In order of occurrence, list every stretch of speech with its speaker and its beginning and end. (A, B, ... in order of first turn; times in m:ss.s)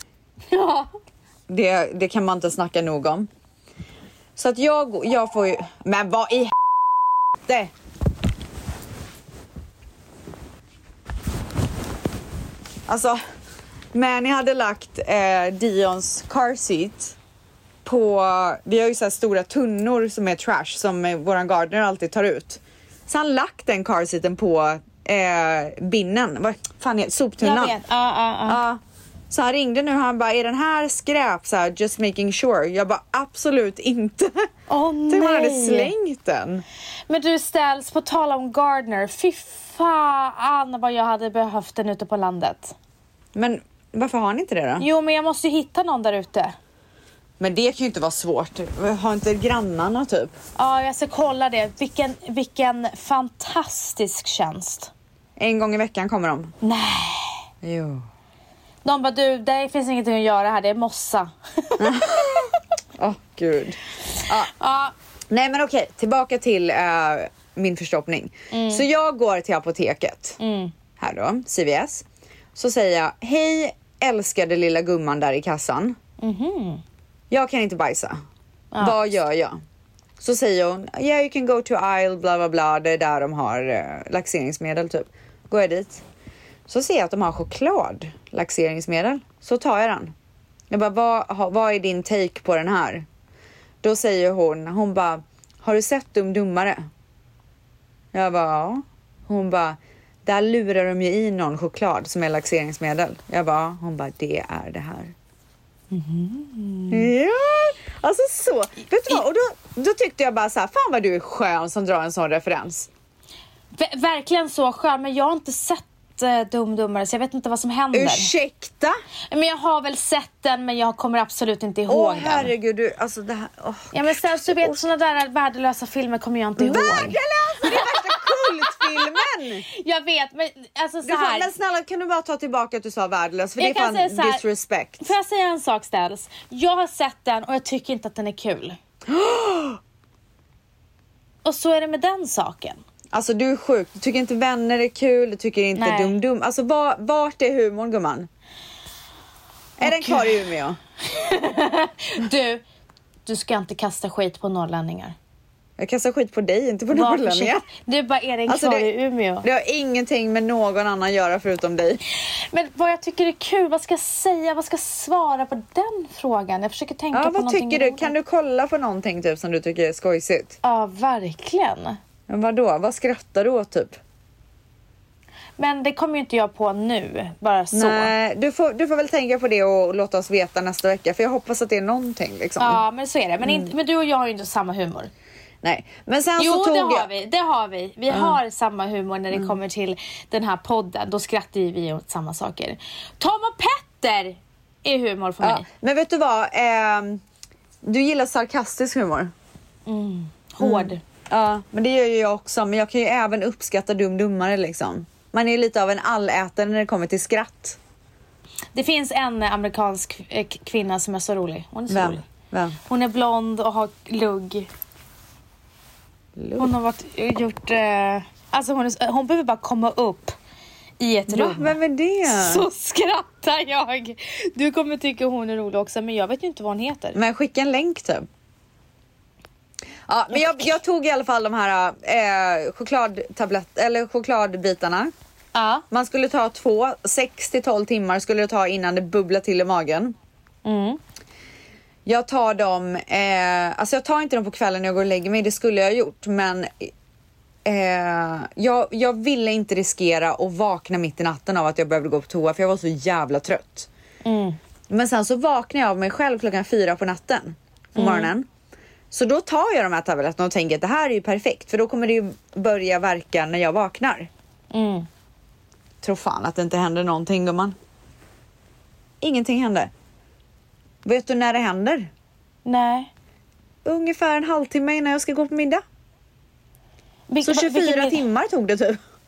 0:00.5-0:00.9 A
0:01.5-0:03.3 B
0:04.4-0:06.6 B
0:07.4-0:07.7 B
0:12.9-0:13.2 B
0:13.9-0:17.2 B
0:17.8-0:27.8 B
0:27.4-0:28.6 A
0:28.5-0:34.5 B
0:34.7-0:35.9 A
0:35.1-0:36.6 B
0:37.1-0:42.8 A
0:43.4-0:44.9 B
0:44.8-0:46.6 A
0:47.4-0:50.4 B
0:50.6-0:54.9 A
0:55.4-0:56.6 B
0:56.6-0:57.4 A
0:57.6-0:58.0 B
0:58.8-1:02.4 A
1:01.8-1:04.5 B
1:04.2-1:04.9 A
1:05.3-1:10.4 B
1:08.5-1:08.8 A
1:10.4-1:10.7 A
1:11.0-1:16.0 B
1:16.2-1:16.8 A
1:17.3-1:18.2 B
1:18.7-1:19.0 A
1:18.8-1:19.6 B
1:20.2-1:26.0 B
1:26.7-1:30.1 B
1:30.7-1:33.1 B
1:33.8-1:36.8 B
1:38.1-1:45.1 B
1:45.9-1:47.1 A
1:46.9-1:52.9 B
1:53.8-1:58.3 A
1:57.9-1:59.0 B
1:59.3-2:02.5 A
2:01.9-2:04.8 B
2:03.9-2:11.5 A
2:06.6-2:09.6 B
2:11.0-2:15.1 B
2:13.6-2:14.4 A
2:15.0-2:18.8 A
2:19.1-2:19.8 B
2:21.4-2:22.8 A
2:23.1-2:28.3 B
2:25.8-2:26.2 A
2:29.8-2:30.8 B
2:29.8-2:30.4 A
2:31.1-2:32.6 A
2:33.3-2:35.2 A
2:35.8-2:37.7 B
2:36.9-2:39.5 A
2:38.5-2:38.9 B
2:39.4-2:42.0 B
2:42.3-2:48.1 A
2:47.1-2:50.6 B
2:50.6-2:52.0 A
2:52.3-2:54.0 B
2:55.6-2:58.1 A
2:57.7-3:02.8 B
3:02.6-3:05.1 A
3:03.4-3:03.7 B
3:05.6-3:07.1 B
3:06.4-3:15.7 A
3:08.1-3:08.4 B
3:15.4-3:17.2 B
3:17.8-3:19.3 B
3:19.9-3:21.0 A
3:20.6-3:27.8 B
3:28.8-3:32.3 A
3:31.9-3:32.8 B
3:32.9-3:34.7 A
3:36.4-3:36.7 B
3:36.6-3:40.4 A
3:41.0-3:47.2 A
3:41.3-3:42.7 B
3:47.2-3:48.3 B
3:50.1-3:55.1 B
3:50.3-3:50.7 A
3:55.5-3:55.8 A
3:55.9-4:00.2 B
4:00.6-4:01.0 A
4:02.1-4:06.9 B
4:07.6-4:13.9 B
4:14.2-4:14.6 A
4:14.9-4:18.5 B
4:18.0-4:18.3 A
4:19.1-4:24.3 B
4:24.7-4:25.1 A
4:26.0-4:27.8 B
4:29.2-4:29.9 B
4:31.0-4:32.1 B
4:32.6-4:33.1 A
4:33.8-4:35.8 B
4:37.3-4:38.2 A
4:37.4-4:39.0 B